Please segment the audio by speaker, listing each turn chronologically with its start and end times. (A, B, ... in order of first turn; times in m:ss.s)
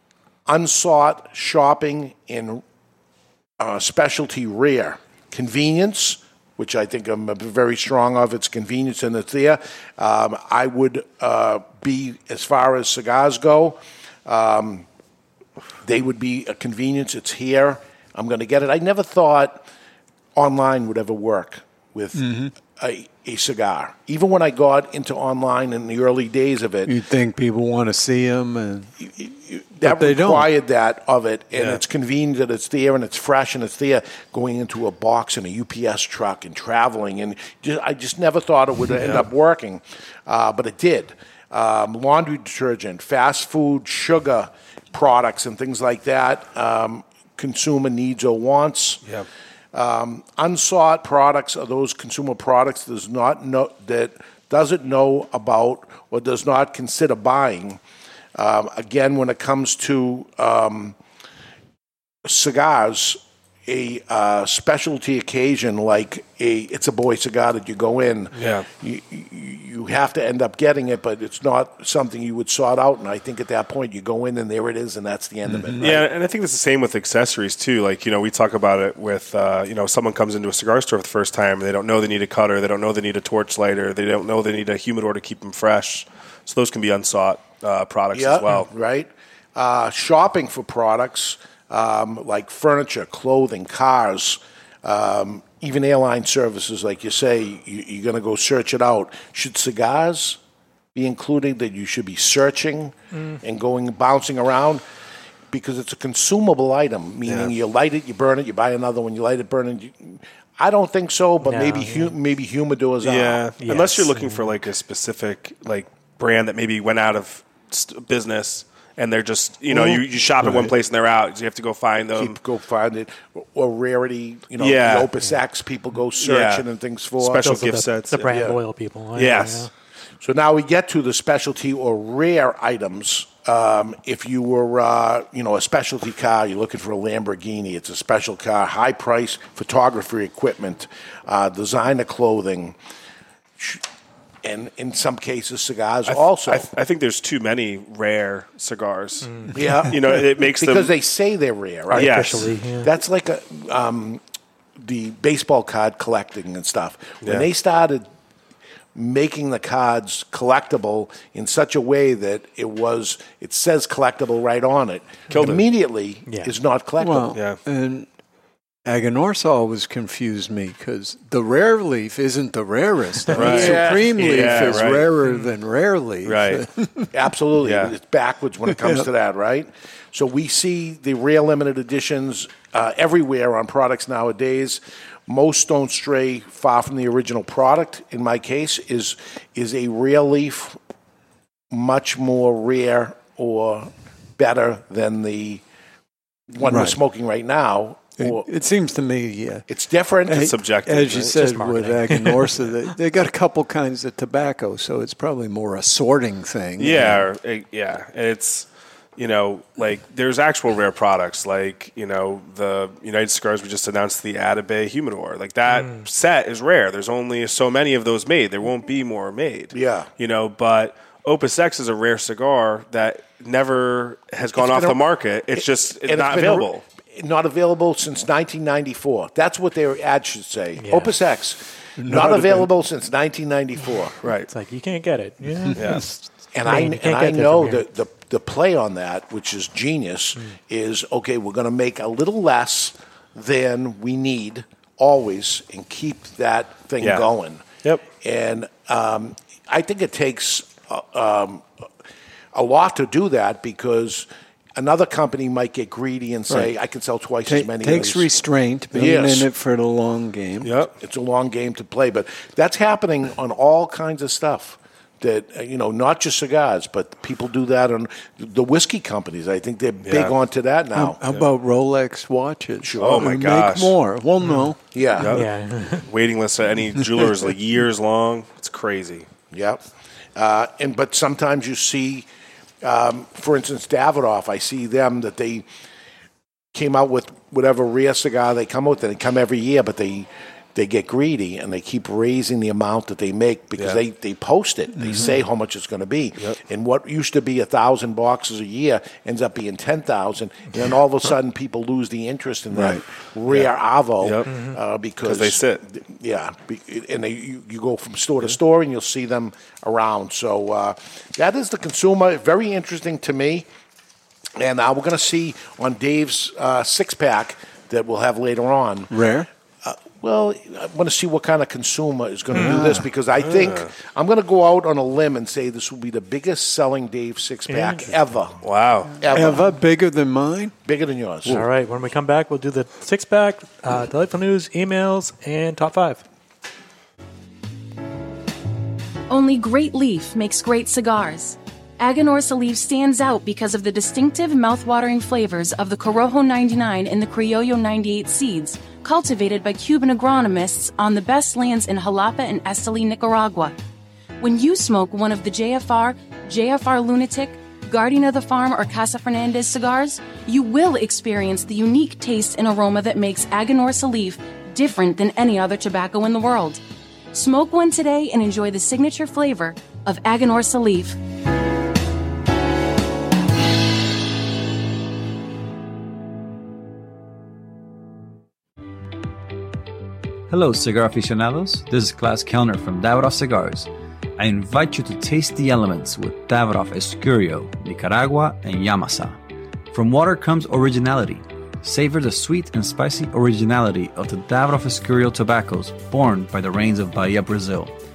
0:00.5-0:02.6 A
0:03.6-0:14.9 A
0:15.8-0:19.6 A
0:20.4-0:26.9 A
0:22.2-0:22.5 B
0:26.9-0:28.9 B
0:29.0-0:49.0 A
0:29.8-0:30.5 B
0:31.6-0:31.8 C
0:39.0-0:39.3 C
0:49.7-0:57.8 A
0:58.4-1:01.0 A
1:02.2-1:16.0 A
1:08.3-1:08.7 C
1:15.4-1:16.0 B
1:15.8-1:28.7 C
1:28.1-1:40.4 A
1:41.0-1:44.8 A
1:43.1-1:43.4 D
1:45.5-1:53.5 A
1:47.3-1:47.5 C
1:51.4-1:52.1 D
1:53.0-2:02.4 C
1:53.6-1:54.5 D
1:59.7-2:00.7 A
2:02.2-2:07.5 A
2:04.6-2:05.1 C
2:06.2-2:06.6 C
2:07.2-2:08.3 C
2:07.4-2:09.7 D
2:08.3-2:08.6 A
2:09.2-2:09.7 C
2:10.2-2:22.8 A
2:24.4-2:26.7 A
2:26.1-2:30.9 C
2:29.2-2:29.6 D
2:29.5-2:34.2 A
2:31.9-2:32.9 D
2:31.9-2:32.5 C
2:34.8-2:38.0 A
2:39.0-2:47.4 A
2:45.3-2:45.7 C
2:46.3-2:46.5 D
2:47.0-2:48.1 B
2:48.8-2:57.1 B
2:53.3-2:55.1 C
2:53.4-2:54.9 A
2:55.2-2:55.5 D
2:56.2-2:56.6 C
2:57.1-3:10.8 A
2:57.6-2:57.9 C
2:58.7-2:59.1 B
3:11.7-3:15.6 A
3:16.5-3:18.5 A
3:16.6-3:17.0 B
3:18.2-3:19.7 B
3:19.7-3:20.5 A
3:20.3-3:27.3 B
3:20.3-3:21.7 C
3:21.3-3:22.4 D
3:26.8-3:46.8 C
3:35.7-3:36.1 D
3:39.7-3:40.1 A
3:44.5-3:45.0 A
3:45.5-3:54.2 A
3:50.8-3:51.2 D
3:52.0-3:52.7 B
3:54.2-3:54.5 C
3:54.5-3:57.8 D
3:55.7-3:55.9 B
3:55.7-3:56.1 C
3:56.5-4:07.7 A
4:07.0-4:07.3 C
4:08.2-4:11.7 A
4:12.5-4:18.3 A
4:17.4-4:20.8 B
4:18.9-4:19.5 A
4:20.6-4:20.9 C
4:21.0-4:31.2 A
4:30.0-4:30.3 C
4:30.9-4:34.8 B
4:32.8-4:33.4 A
4:33.0-4:34.0 C
4:34.9-4:35.4 A
4:35.2-4:35.5 C
4:35.2-4:36.1 D
4:36.0-4:39.3 C
4:39.5-4:39.8 A
4:40.4-4:42.3 A
4:42.8-4:45.7 A
4:46.7-5:13.7 A
4:55.0-4:55.3 B
5:02.7-5:03.0 B
5:03.5-5:04.5 C
5:04.5-5:04.8 D
5:05.2-5:05.8 C
5:14.6-5:19.2 A
5:19.1-5:19.5 B
5:19.8-5:28.6 A
5:22.5-5:23.1 B
5:22.5-5:22.9 D
5:23.4-5:23.9 C
5:27.7-5:28.2 D
5:28.6-5:29.2 C
5:29.2-5:29.7 A
5:29.3-5:30.8 B
5:30.9-5:31.6 A
5:31.5-5:36.2 D
5:39.3-5:53.8 E
5:54.4-6:06.8 E
6:07.3-6:11.2 E
6:20.5-6:29.4 F
6:29.9-6:37.9 F